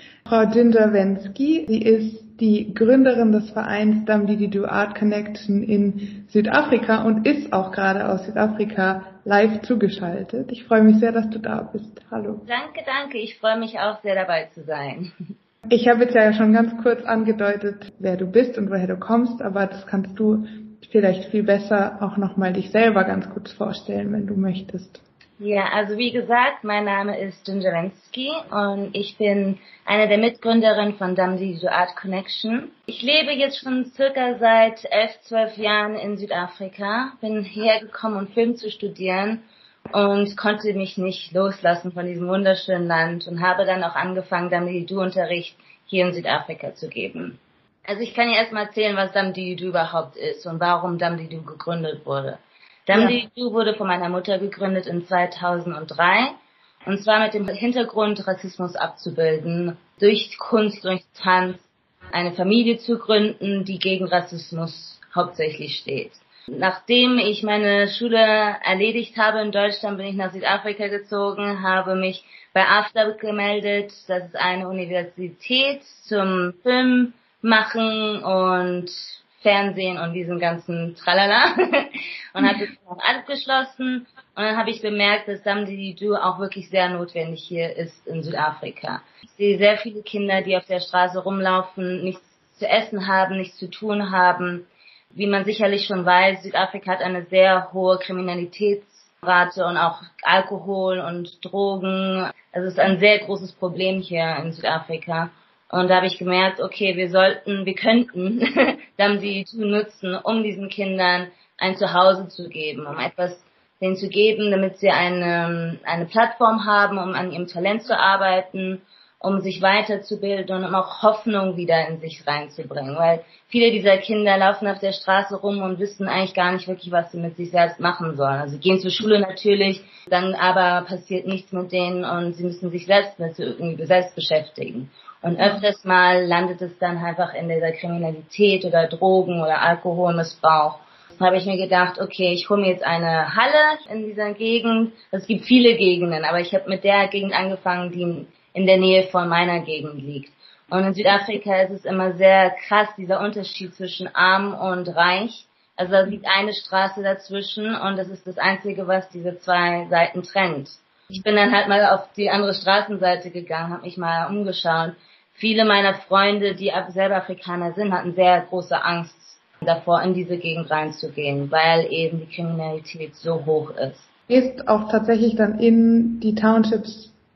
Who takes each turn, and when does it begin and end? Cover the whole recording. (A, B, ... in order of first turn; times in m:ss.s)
0:00.3-0:12.4 A
0:12.5-0:15.1 B
0:15.7-0:25.0 A
0:25.4-0:39.4 B
0:39.9-0:56.3 B
0:52.9-0:53.2 A
0:56.9-2:54.1 B
2:54.3-2:57.1 A